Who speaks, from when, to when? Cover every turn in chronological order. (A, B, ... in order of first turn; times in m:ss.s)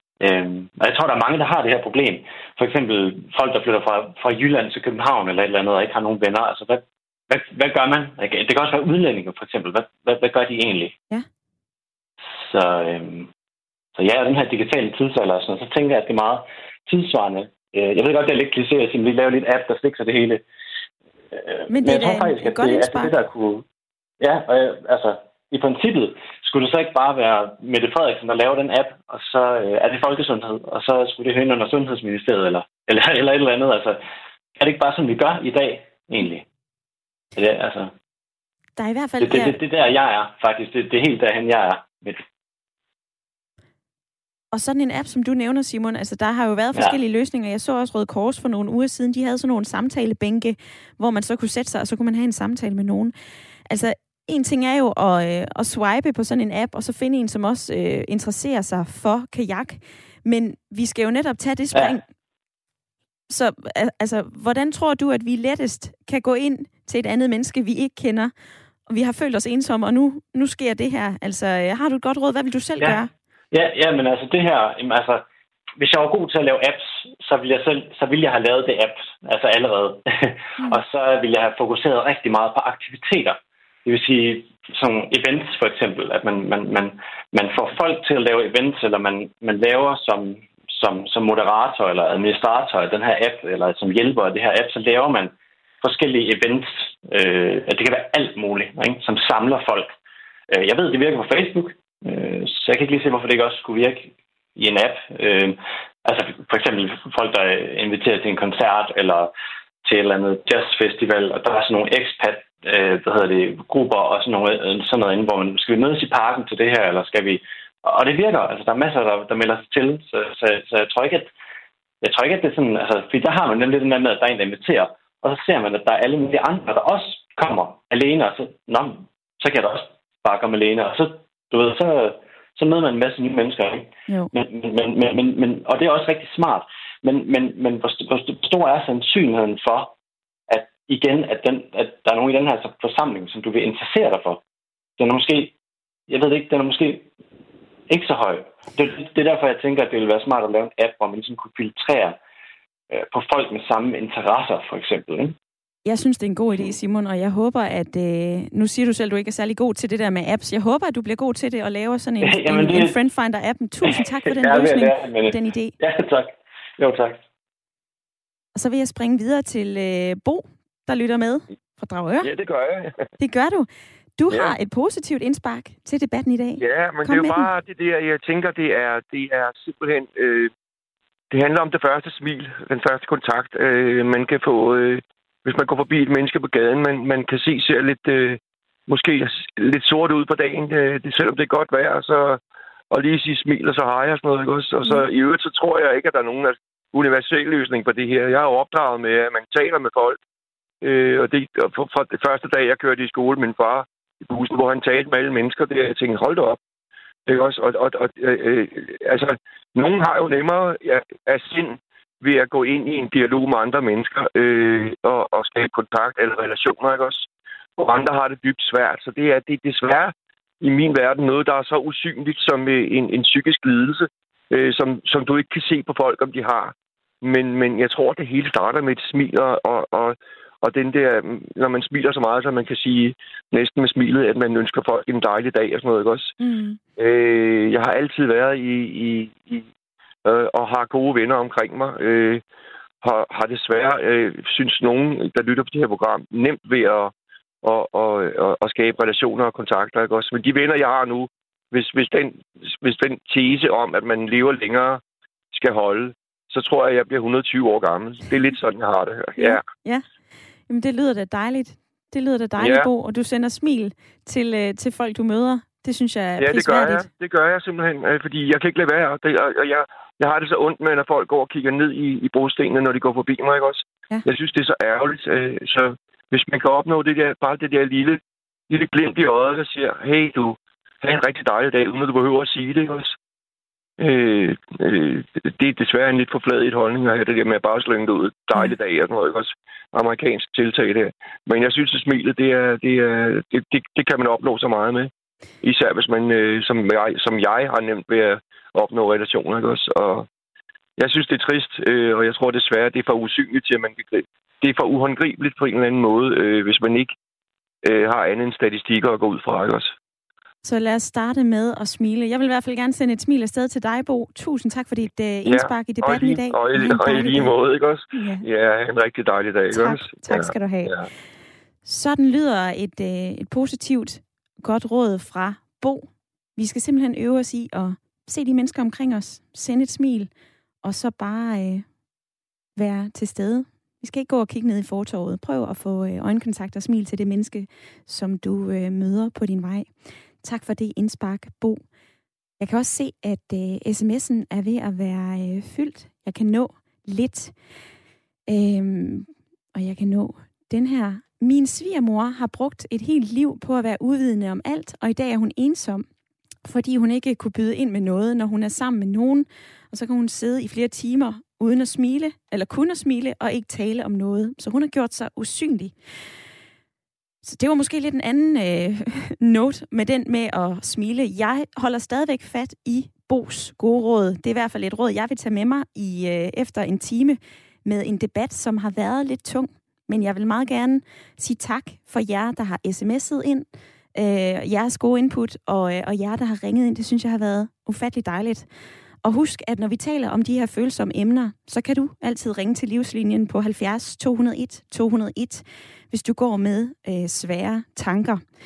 0:00.2-0:11.0 A
0:12.4-0:13.3 A
0:14.0-0:20.4 A
0:21.3-0:23.7 A
0:21.7-0:23.2 B
0:24.2-0:34.0 A
0:34.6-0:36.4 A
0:37.4-0:37.9 A
0:38.8-0:39.6 B
0:39.2-0:42.2 A
0:44.5-0:53.1 B
0:53.7-1:02.0 B
1:01.7-1:02.0 A
1:03.3-1:08.3 B
1:08.9-1:13.1 B
1:13.5-1:15.2 A
1:15.8-1:40.0 A
1:40.5-1:49.3 A
1:49.8-2:01.3 A
2:02.0-2:20.0 A
2:20.5-2:24.4 A
2:25.0-2:25.6 A
2:26.1-2:27.1 A
2:27.9-2:32.2 A
2:32.9-2:35.4 A
2:35.9-2:45.8 B
2:42.2-2:43.0 A
2:43.8-2:47.2 A
2:48.6-2:52.3 B
2:52.2-2:53.1 C
2:53.2-2:57.5 B
2:56.6-3:00.5 C
3:01.3-3:12.4 C
3:12.9-3:20.2 C
3:20.8-3:26.6 C
3:27.3-3:56.4 C
3:56.4-3:56.8 B
3:57.0-3:59.7 C
4:00.2-4:02.4 C
4:03.0-4:19.6 C
4:19.4-4:20.1 B
4:20.7-4:27.1 B
4:22.6-4:22.9 C
4:26.4-4:43.2 C
4:44.0-4:55.1 C
4:55.6-5:00.3 C
5:01.0-5:07.1 C
5:07.8-5:09.9 C
5:10.6-5:17.5 B
5:15.5-5:21.1 C
5:18.1-5:18.4 B
5:19.7-5:21.0 B
5:21.8-5:30.3 B
5:30.8-5:31.9 B
5:32.8-5:41.8 B
5:42.6-5:47.5 B
5:48.5-5:56.1 B
5:56.6-6:06.0 B
6:07.4-6:28.7 B
6:29.2-6:38.5 B